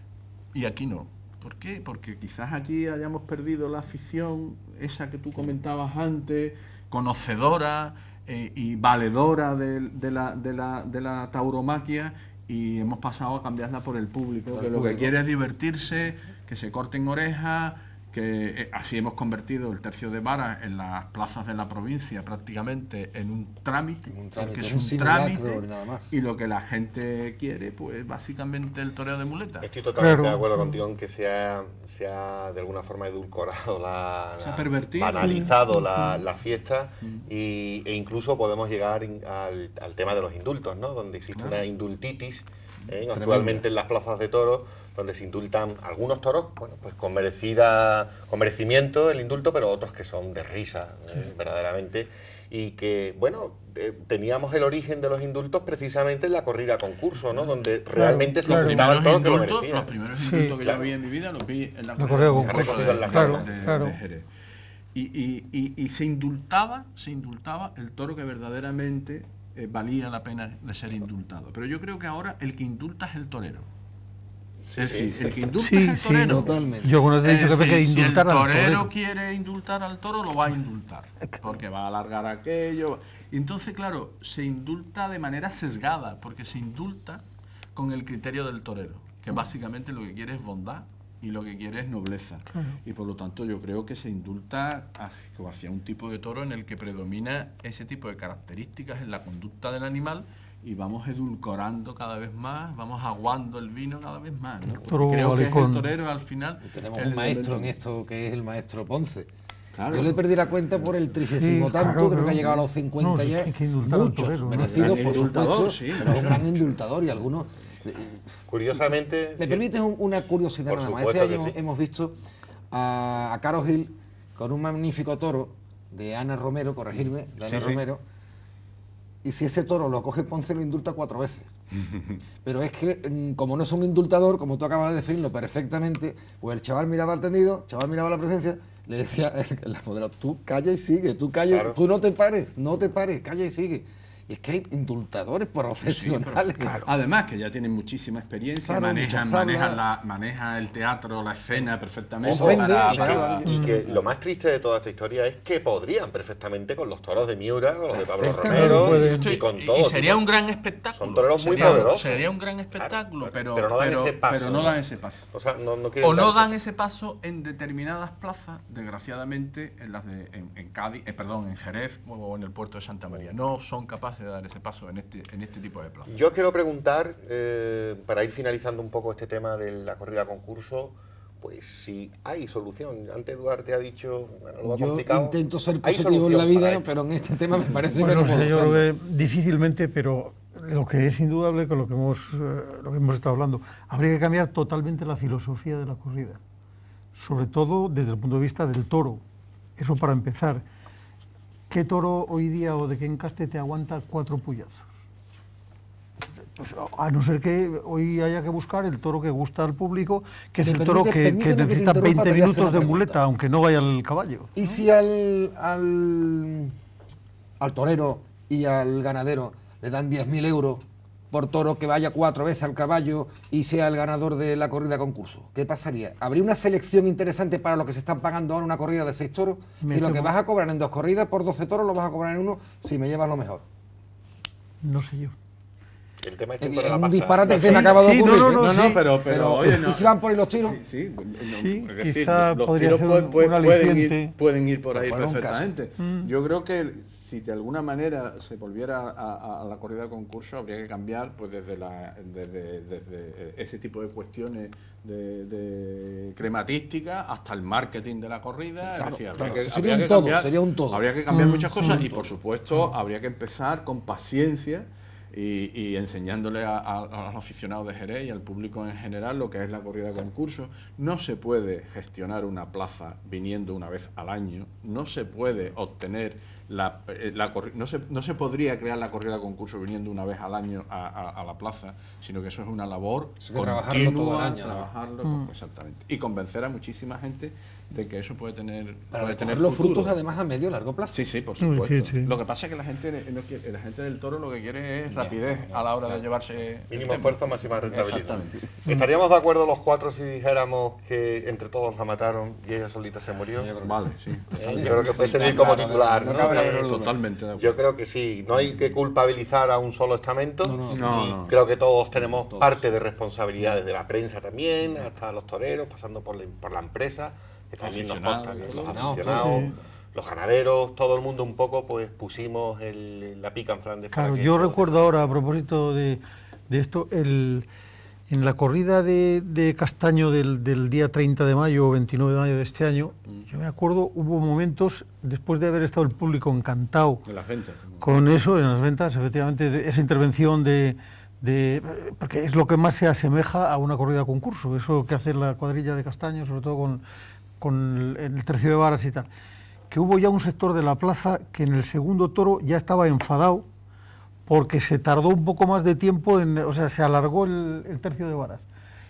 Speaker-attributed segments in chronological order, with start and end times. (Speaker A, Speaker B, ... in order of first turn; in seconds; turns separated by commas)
Speaker A: 0.5-29.7, Speaker B: 14.6-15.1, Speaker B: 24.1-26.2, Speaker C: 29.6-59.9, Speaker D: 30.0-30.8, Speaker A: 34.4-35.6, Speaker D: 35.2-36.2, Speaker A: 41.4-41.6, Speaker B: 43.1-43.7, Speaker D: 57.9-58.8, Speaker A: 58.4-64.3, Speaker D: 60.2-60.5, Speaker C: 60.6-60.9, Speaker D: 62.0-64.0, Speaker C: 62.2-63.8, Speaker A: 64.9-73.7, Speaker A: 74.8-87.2, Speaker C: 74.8-75.3, Speaker D: 75.6-78.9, Speaker B: 76.3-77.0, Speaker A: 87.8-107.8, Speaker D: 104.8-105.9, Speaker B: 106.7-109.3, Speaker A: 109.8-110.2, Speaker B: 109.9-118.3, Speaker D: 111.3-112.5, Speaker D: 113.0-115.1, Speaker A: 114.6-116.6, Speaker C: 118.5-119.7, Speaker B: 119.4-122.2, Speaker C: 120.7-121.6, Speaker B: 122.7-128.0, Speaker A: 127.4-127.8, Speaker B: 129.2-131.5, Speaker B: 132.4-146.9, Speaker C: 141.5-141.8, Speaker A: 145.8-153.6, Speaker D: 146.6-146.9, Speaker B: 148.7-149.8, Speaker C: 152.2-160.2, Speaker B: 152.2-153.5, Speaker D: 153.5-153.8, Speaker B: 157.9-159.2, Speaker D: 158.5-159.3, Speaker A: 158.5-165.3, Speaker C: 160.9-166.5, Speaker A: 166.0-176.2, Speaker C: 176.1-186.8, Speaker B: 184.6-188.9, Speaker D: 187.9-196.4, Speaker D: 197.2-199.2, Speaker D: 199.8-200.6, Speaker D: 201.7-204.9, Speaker D: 206.6-214.8, Speaker B: 210.6-213.2, Speaker B: 214.6-216.7, Speaker B: 217.6-233.7, Speaker D: 229.8-230.3, Speaker D: 234.8-235.4, Speaker C: 236.2-238.0, Speaker B: 236.6-240.8, Speaker D: 237.7-239.1, Speaker A: 238.5-290.1, Speaker D: 241.6-244.3, Speaker B: 244.9-245.7, Speaker D: 246.0-246.3, Speaker B: 258.9-261.2, Speaker D: 261.3-261.9, Speaker B: 261.8-262.3, Speaker B: 283.4-284.9, Speaker B: 289.1-291.3, Speaker A: 291.1-298.7, Speaker D: 291.6-292.3, Speaker B: 295.1-296.2, Speaker C: 296.9-303.9, Speaker B: 303.6-304.0, Speaker A: 303.6-307.8, Speaker B: 304.5-307.1, Speaker C: 304.5-307.0, Speaker C: 307.6-325.1, Speaker B: 310.6-311.4, Speaker A: 310.9-311.6, Speaker B: 312.5-312.8, Speaker A: 317.8-319.4, Speaker B: 318.7-319.7, Speaker D: 319.4-319.8, Speaker D: 324.1-327.7, Speaker D: 328.3-337.2, Speaker A: 337.2-338.1, Speaker D: 338.0-347.0, Speaker D: 347.6-349.3, Speaker D: 349.9-353.7, Speaker D: 354.5-358.6